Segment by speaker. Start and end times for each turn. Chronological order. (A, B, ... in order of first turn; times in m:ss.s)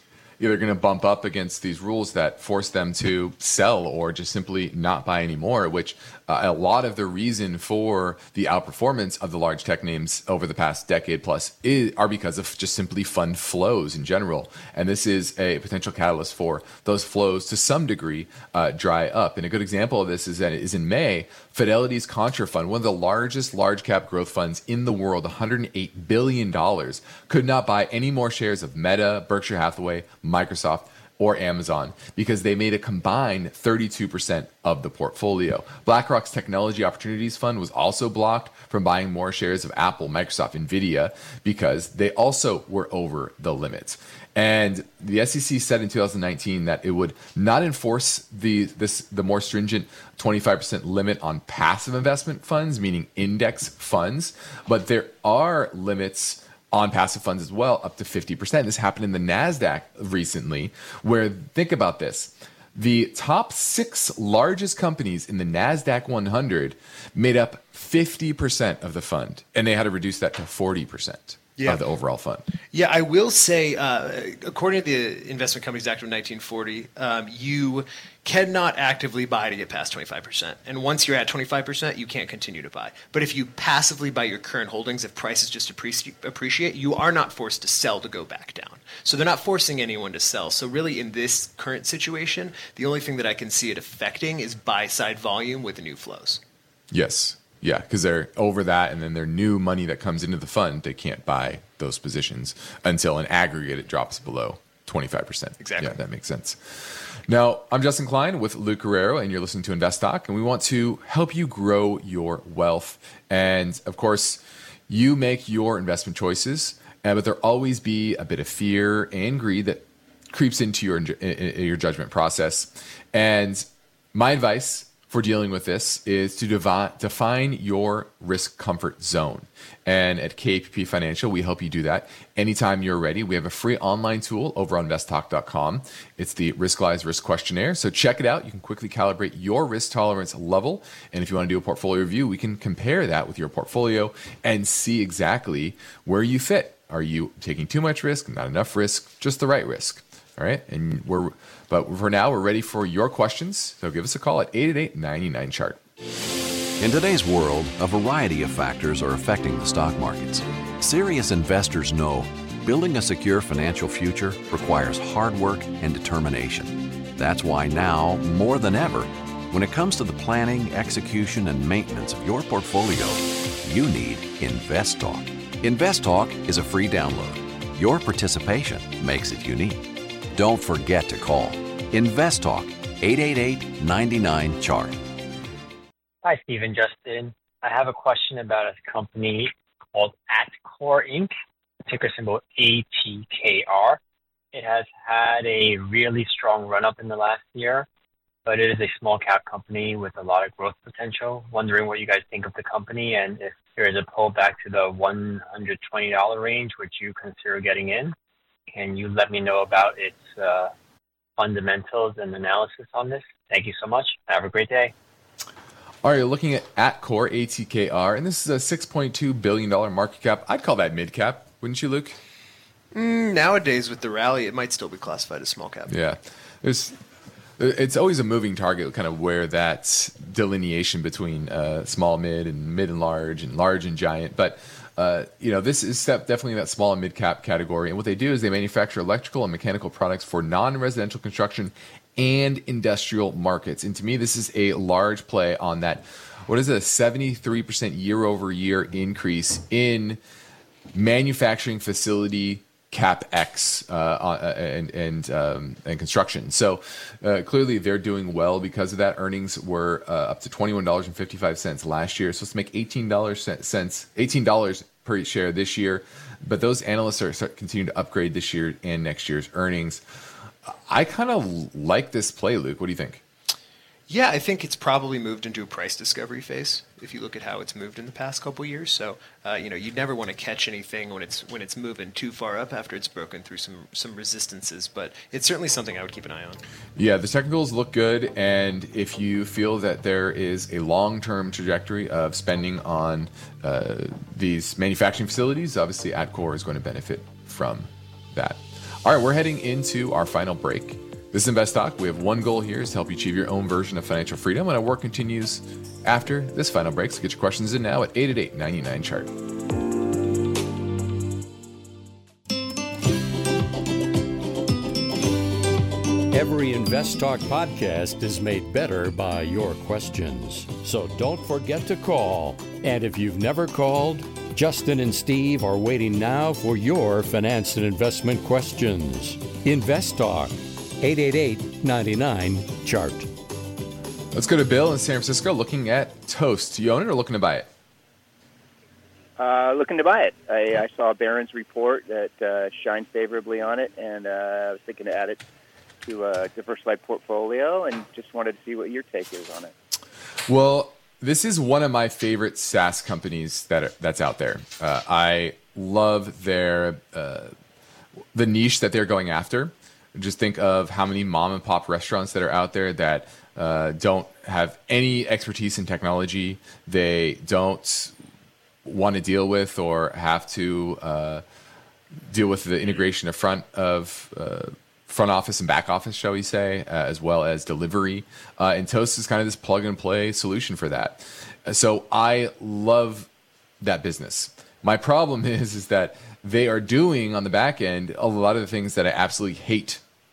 0:00.4-1:12.4 A
1:11.6-1:11.8 B
1:12.7-1:36.4 B
1:36.9-2:35.8 A
1:45.6-1:46.0 B
2:36.8-3:05.0 C
3:06.2-3:11.3 D
3:11.9-3:14.0 D
3:14.5-3:17.9 D
3:18.5-3:28.2 D
3:28.7-3:30.7 D
3:31.4-3:34.9 D
3:36.0-3:42.2 A
3:42.9-3:45.9 B
3:45.9-3:47.0 A
3:47.6-4:10.2 A
4:10.9-4:30.0 A
4:30.6-4:33.2 A
4:34.1-4:46.6 B
4:47.0-5:09.3 A
5:16.3-5:33.3 E
5:34.3-5:37.7 A
5:39.5-5:45.3 F
5:46.1-5:49.7 F
5:50.5-5:57.5 A
5:58.3-6:08.2 A
6:08.8-6:11.4 A
6:12.3-6:23.3 A
6:23.8-6:30.0 A